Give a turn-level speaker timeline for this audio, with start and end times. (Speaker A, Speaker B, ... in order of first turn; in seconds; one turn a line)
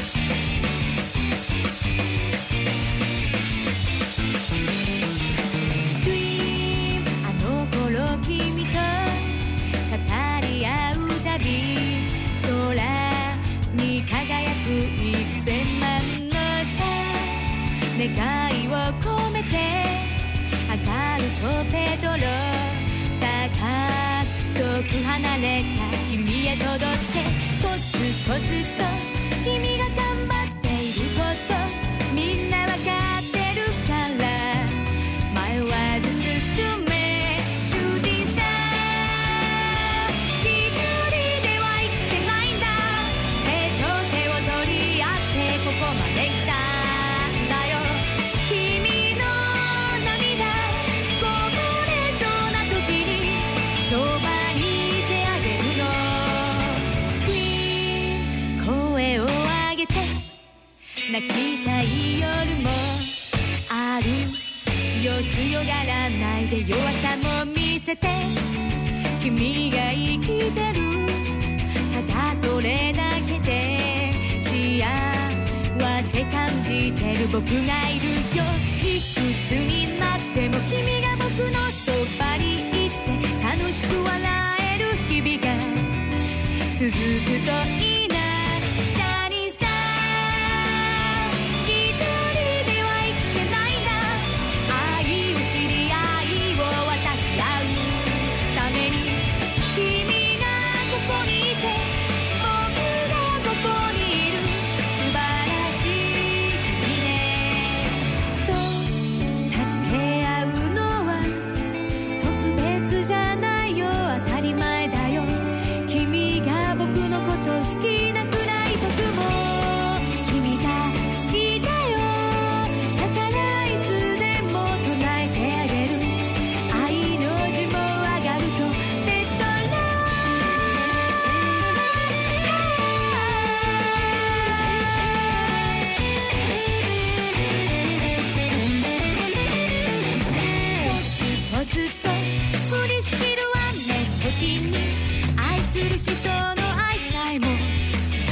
Speaker A: 6.0-60.3
Speaker A: 61.1-68.6
Speaker A: 69.2-86.1
Speaker A: 86.7-130.4
Speaker A: 131.2-137.3
Speaker A: 140.3-147.8